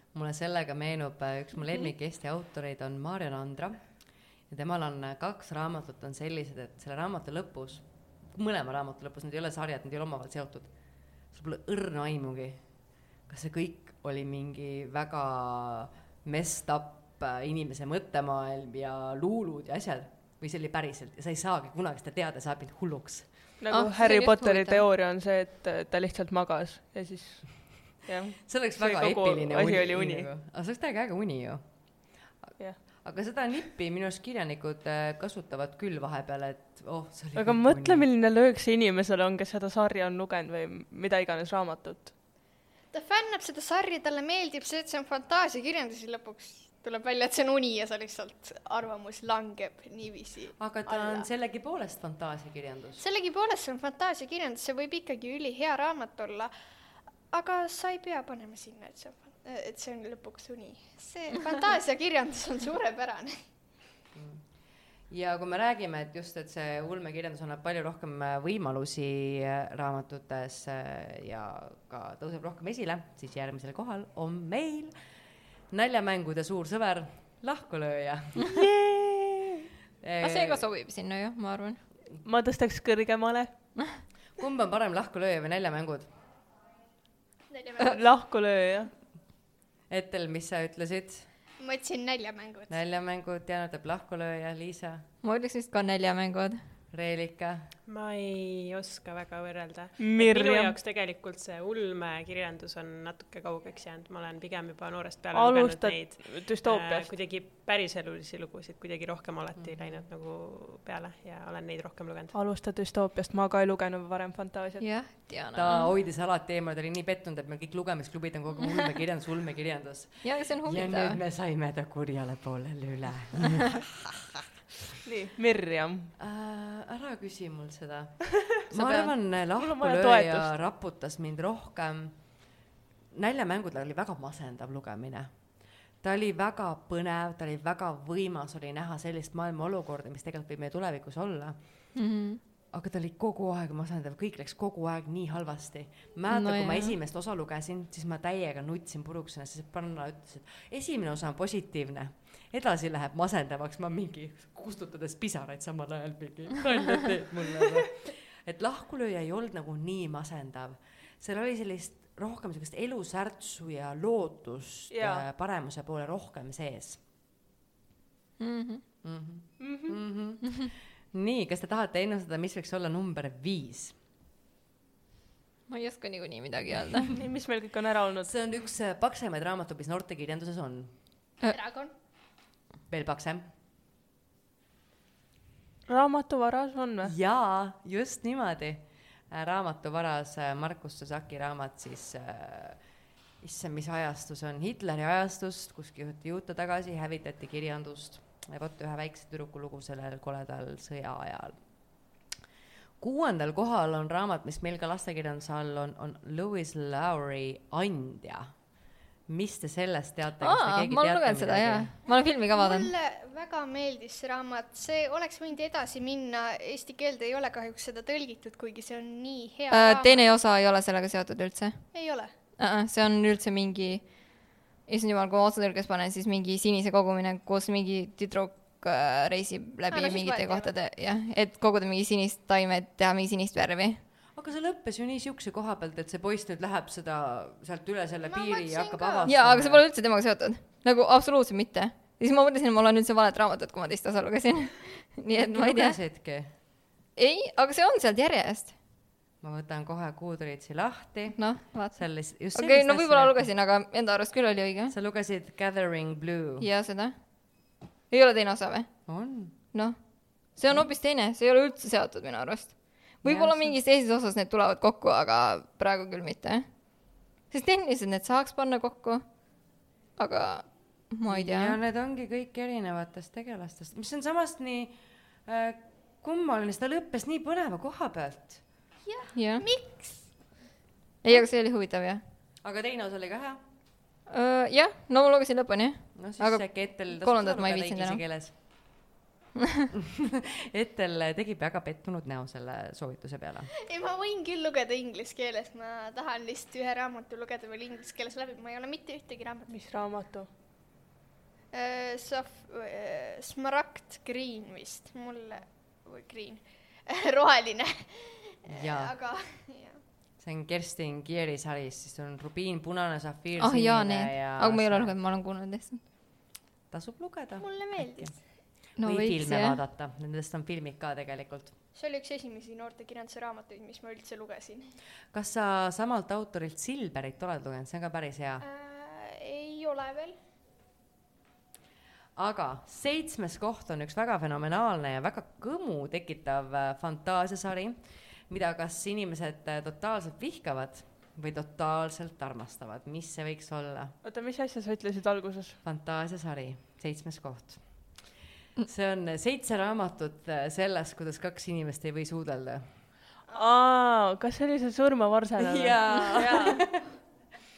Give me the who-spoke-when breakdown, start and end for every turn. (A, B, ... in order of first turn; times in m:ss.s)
0:00.1-0:23.4 A
0:23.6-0:30.3 B
0:23.7-0:24.8 C
0:28.4-0:38.1 A
0:37.3-0:42.1 B
0:42.9-0:51.3 D
0:50.6-0:53.0 A
0:53.0-0:56.5 D
0:57.3-1:03.6 D
1:04.1-1:15.0 A
1:15.7-1:19.2 A
1:20.0-1:20.6 A
1:20.2-1:21.9 C
1:22.2-1:23.6 B
1:24.3-1:26.1 A
1:27.5-1:28.0 D
1:27.8-1:28.9 B
1:29.9-1:31.3 A
1:31.6-1:32.8 D
1:32.7-1:35.1 A
1:35.2-1:36.6 C
1:36.9-1:37.7 A
1:37.8-1:52.3 E
1:40.0-1:40.8 B
1:45.3-1:47.1 B
1:49.6-1:50.0 A
1:52.3-1:54.9 B
1:54.8-1:55.9 C
1:55.5-2:04.4 A
2:00.2-2:01.2 C
2:05.0-2:06.1 B
2:06.2-2:12.5 A
2:08.7-2:10.5 B
2:13.1-2:21.9 A
2:21.9-2:22.4 C
2:22.7-2:47.0 A
2:26.3-2:26.9 C
2:44.9-2:45.2 B
2:48.4-2:48.8 C
2:49.0-2:54.0 A
2:49.6-2:50.0 B
2:55.7-2:57.1 C
2:57.1-2:58.4 B
2:58.2-3:01.0 A
3:01.5-3:01.9 D
3:02.9-3:03.5 A
3:05.9-3:07.1 B
3:07.0-3:21.6 A
3:23.0-3:31.9 A
3:30.4-3:32.9 C
3:32.1-3:40.3 D
3:39.7-3:54.0 C
3:41.9-3:42.3 D
3:49.9-3:50.7 D
3:54.3-3:59.8 A
3:58.2-3:59.3 D
3:59.2-4:06.0 C
4:05.3-4:06.5 A
4:07.1-4:08.8 C
4:09.4-4:13.5 A
4:11.4-4:14.9 C
4:14.9-4:16.7 A
4:16.6-4:31.8 C
4:19.1-4:20.0 A
4:23.2-4:23.8 A
4:31.2-4:38.7 A
4:39.0-4:40.6 D
4:39.3-4:39.7 C
4:41.2-4:42.2 C
4:42.6-4:43.6 A
4:44.3-4:48.2 C
4:46.1-4:49.1 A
4:50.7-4:53.7 A
4:53.8-4:59.8 D
4:59.7-5:00.5 B
5:01.7-5:10.0 D
5:08.6-5:09.1 A
5:10.4-5:15.1 A
5:13.6-5:16.0 C
5:16.9-5:21.8 A
5:17.6-5:18.5 D
5:19.0-5:19.8 C
5:21.9-5:25.0 D
5:25.3-5:28.6 A
5:28.6-5:30.4 D
5:32.4-5:44.2 A
5:44.2-5:45.8 B
5:45.8-5:48.3 A
5:48.8-5:53.1 A
5:53.5-5:56.9 B
5:55.6-5:57.2 A